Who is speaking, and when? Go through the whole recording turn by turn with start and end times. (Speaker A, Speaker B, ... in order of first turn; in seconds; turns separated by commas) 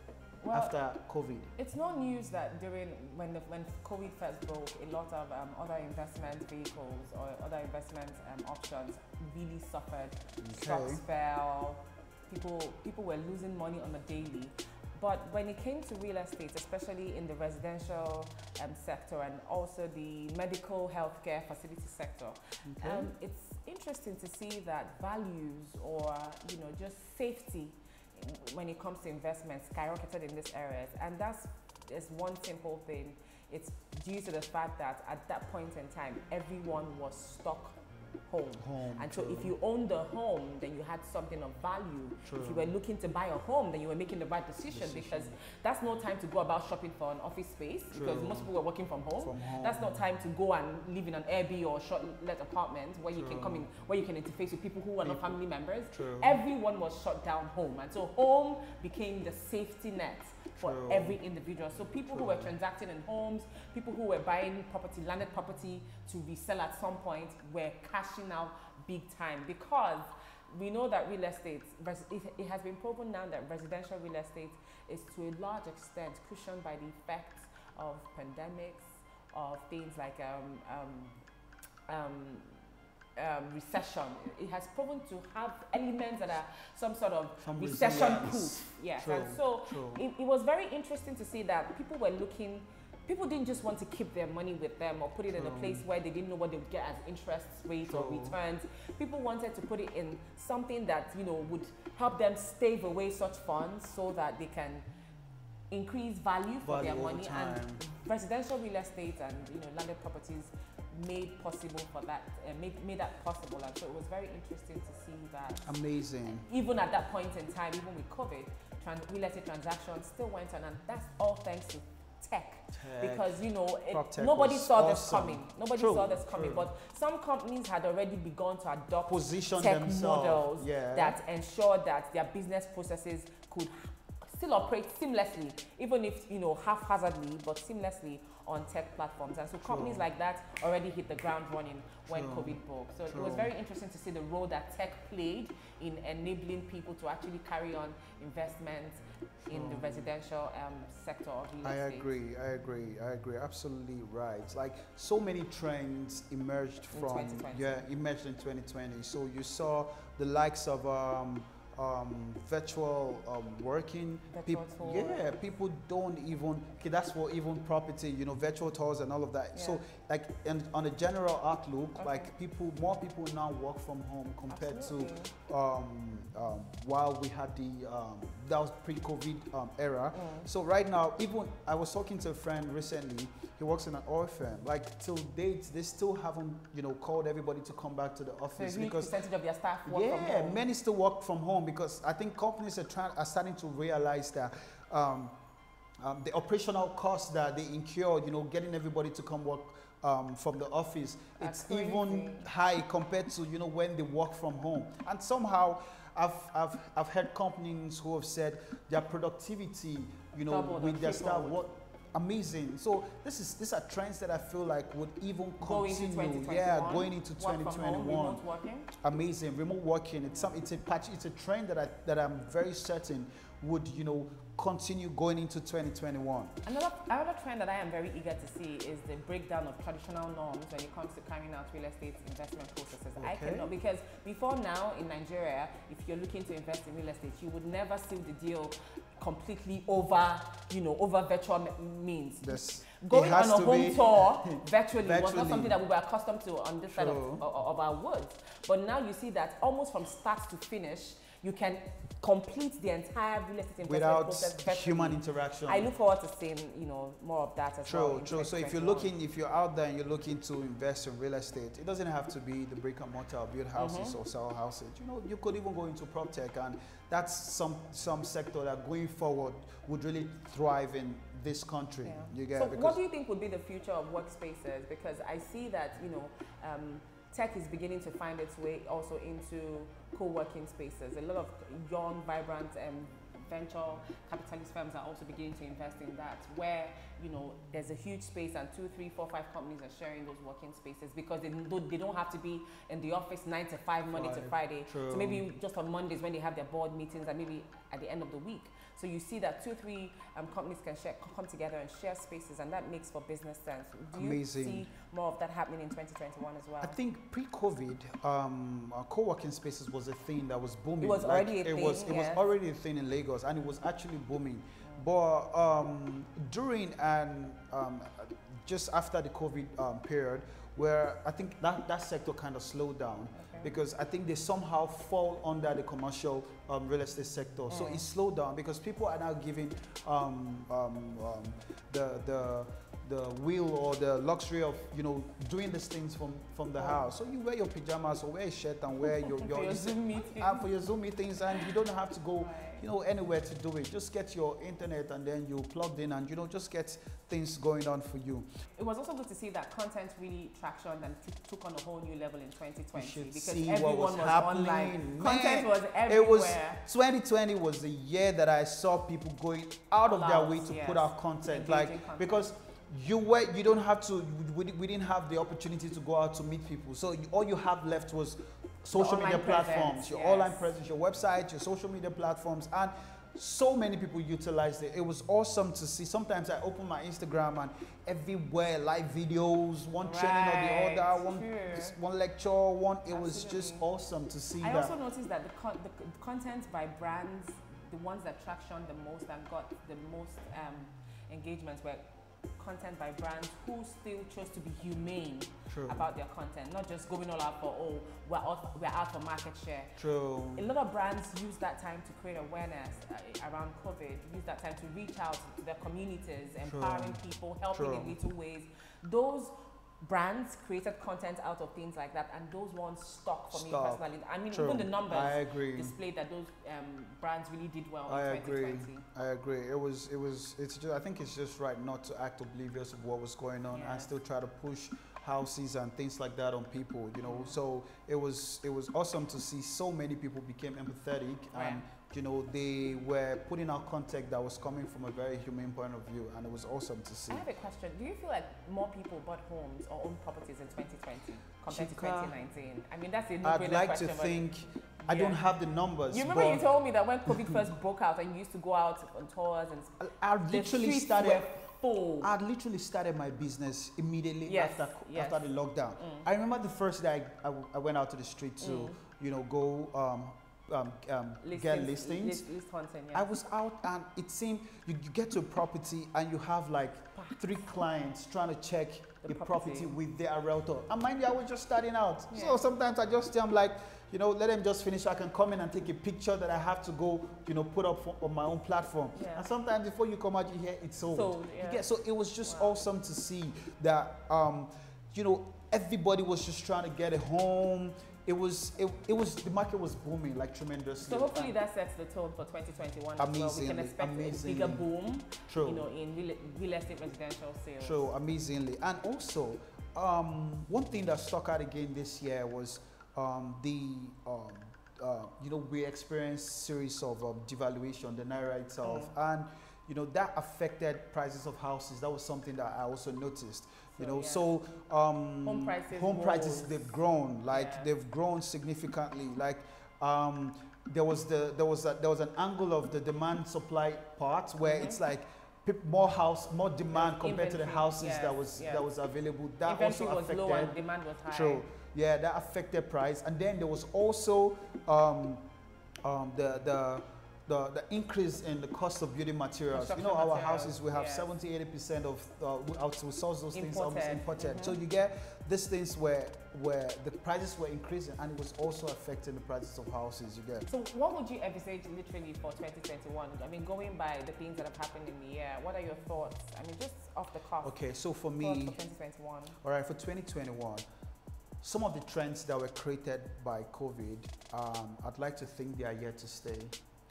Speaker A: 0.4-0.7, Speaker B: 0.5-1.5, Speaker A: 1.6-81.2, Speaker B: 10.4-11.0, Speaker B: 22.6-23.1, Speaker B: 38.5-39.5, Speaker B: 42.2-42.7, Speaker B: 44.7-45.3, Speaker B: 47.9-48.5, Speaker B: 49.2-50.0, Speaker B: 53.1-53.6, Speaker B: 55.0-55.4, Speaker B: 55.9-56.4, Speaker B: 60.6-61.2, Speaker B: 62.1-62.5, Speaker A: 81.9-82.6, Speaker A: 83.2-104.8, Speaker B: 87.4-90.0, Speaker B: 95.3-95.8, Speaker B: 97.8-98.4, Speaker A: 105.7-152.1, Speaker B: 106.6-107.8, Speaker B: 115.7-116.5, Speaker B: 122.7-126.7, Speaker B: 129.1-131.2, Speaker B: 139.6-140.1, Speaker B: 142.1-143.5, Speaker B: 149.5-150.1, Speaker B: 151.6-189.2, Speaker A: 156.9-157.8, Speaker A: 164.3-165.3, Speaker A: 169.5-169.8, Speaker A: 172.0-172.3, Speaker A: 174.5-175.3, Speaker A: 180.1-180.5, Speaker A: 188.6-190.6, Speaker B: 189.8-195.3, Speaker B: 196.0-218.4, Speaker A: 201.4-202.5, Speaker A: 210.5-211.6, Speaker A: 215.6-218.9, Speaker B: 218.9-226.6, Speaker A: 220.3-220.5, Speaker A: 226.6-259.1, Speaker B: 233.2-233.7, Speaker B: 242.4-245.8, Speaker B: 246.9-247.4, Speaker B: 253.8-255.9, Speaker B: 257.9-273.0, Speaker A: 263.7-264.2, Speaker A: 272.0-307.0, Speaker B: 294.1-295.4, Speaker B: 304.1-304.9, Speaker B: 306.8-348.5, Speaker A: 311.0-312.4, Speaker A: 323.3-323.7, Speaker A: 327.7-328.0, Speaker A: 336.8-337.1, Speaker A: 339.1-340.6, Speaker A: 342.4-342.9, Speaker A: 348.8-356.8, Speaker B: 352.9-384.9, Speaker A: 360.0-362.5, Speaker A: 368.9-370.7, Speaker A: 380.0-382.0, Speaker A: 383.1-383.9, Speaker A: 384.6-400.0, Speaker B: 395.7-396.1, Speaker B: 400.0-400.7, Speaker A: 400.5-419.0, Speaker B: 406.6-407.2, Speaker B: 407.7-408.2, Speaker B: 413.5-415.9, Speaker B: 418.1-437.4, Speaker A: 423.7-424.1, Speaker A: 427.2-427.6, Speaker A: 431.5-431.8, Speaker A: 437.3-444.5, Speaker B: 441.7-442.3, Speaker B: 443.4-446.6, Speaker A: 445.1-445.4, Speaker A: 446.1-452.3, Speaker B: 447.2-447.7, Speaker B: 450.0-451.5, Speaker B: 452.2-462.4, Speaker A: 454.4-456.3, Speaker A: 458.6-458.9, Speaker A: 461.4-463.3, Speaker B: 463.1-491.5, Speaker A: 467.1-467.6, Speaker A: 469.2-469.9, Speaker A: 472.3-472.6, Speaker A: 479.1-479.5, Speaker A: 481.1-481.8, Speaker A: 482.4-482.9, Speaker A: 491.0-498.1, Speaker B: 493.2-494.9, Speaker B: 495.4-495.9, Speaker B: 497.8-535.4, Speaker A: 508.8-509.1, Speaker A: 513.9-514.5, Speaker A: 515.4-517.0, Speaker A: 517.5-517.9, Speaker A: 524.6-525.0, Speaker A: 526.9-528.9, Speaker A: 529.6-531.6, Speaker B: 536.0-550.7, Speaker A: 539.7-541.3, Speaker A: 543.5-544.8, Speaker A: 550.7-557.8, Speaker B: 557.6-558.8, Speaker A: 558.4-559.6, Speaker B: 559.6-560.8, Speaker B: 561.6-566.7